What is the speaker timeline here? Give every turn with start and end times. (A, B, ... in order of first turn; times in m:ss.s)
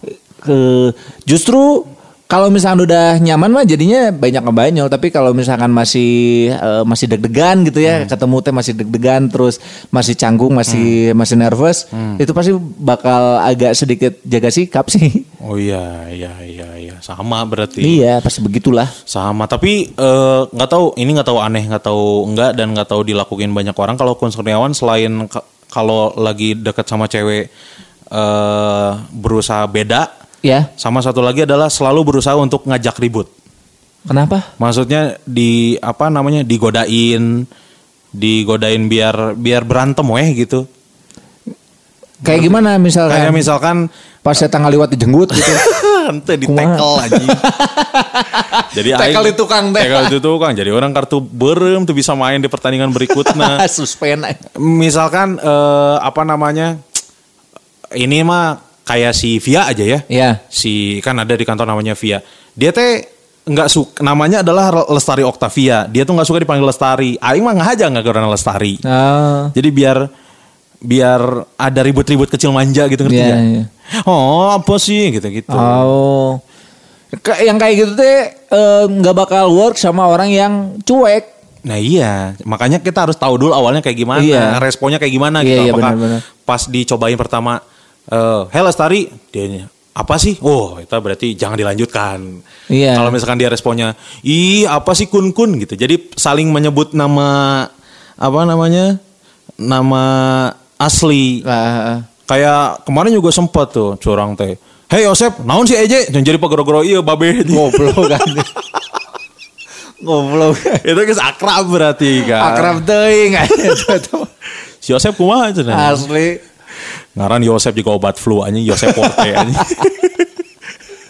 0:00.4-0:15.2 A
0:10.7-0:11.0 B
0:11.9-0:12.2 B
0:15.4-0:18.0 B
0:17.8-0:18.9 A
0:19.1-0:27.5 B
0:28.1-0:30.1 B
0:30.8-0:33.3 B
0:34.1-0:34.5 A
0:34.6-0:37.4 B
0:38.2-0:40.6 B
0:42.2-0:43.5 A
0:42.3-0:43.9 B
0:44.2-0:45.7 A
0:45.3-0:47.4 B
0:46.4-0:50.1 A
0:48.6-0:53.6 B
0:53.0-0:54.4 A
0:54.6-0:56.8 B
0:58.0-1:08.8 B
1:00.1-1:00.4 A
1:08.8-1:09.5 A
1:09.6-1:10.1 B
1:10.9-1:15.9 B
1:13.1-1:13.7 A
1:15.5-1:16.4 A
1:17.1-1:21.3 A
1:21.7-1:27.6 B
1:24.2-1:24.6 A
1:25.4-1:26.2 A
1:28.1-1:32.4 B
1:32.7-1:33.1 A
1:32.9-1:37.7 B
1:38.2-1:39.0 B
1:39.6-1:41.4 B
1:41.4-1:42.1 A
1:42.3-1:48.4 B
1:47.5-1:48.5 A
1:50.0-1:50.8 A
1:50.8-1:52.8 B
1:52.2-1:54.3 A
1:54.8-1:56.1 B
1:55.7-1:56.4 A
1:57.2-2:00.3 B
1:58.8-1:59.8 A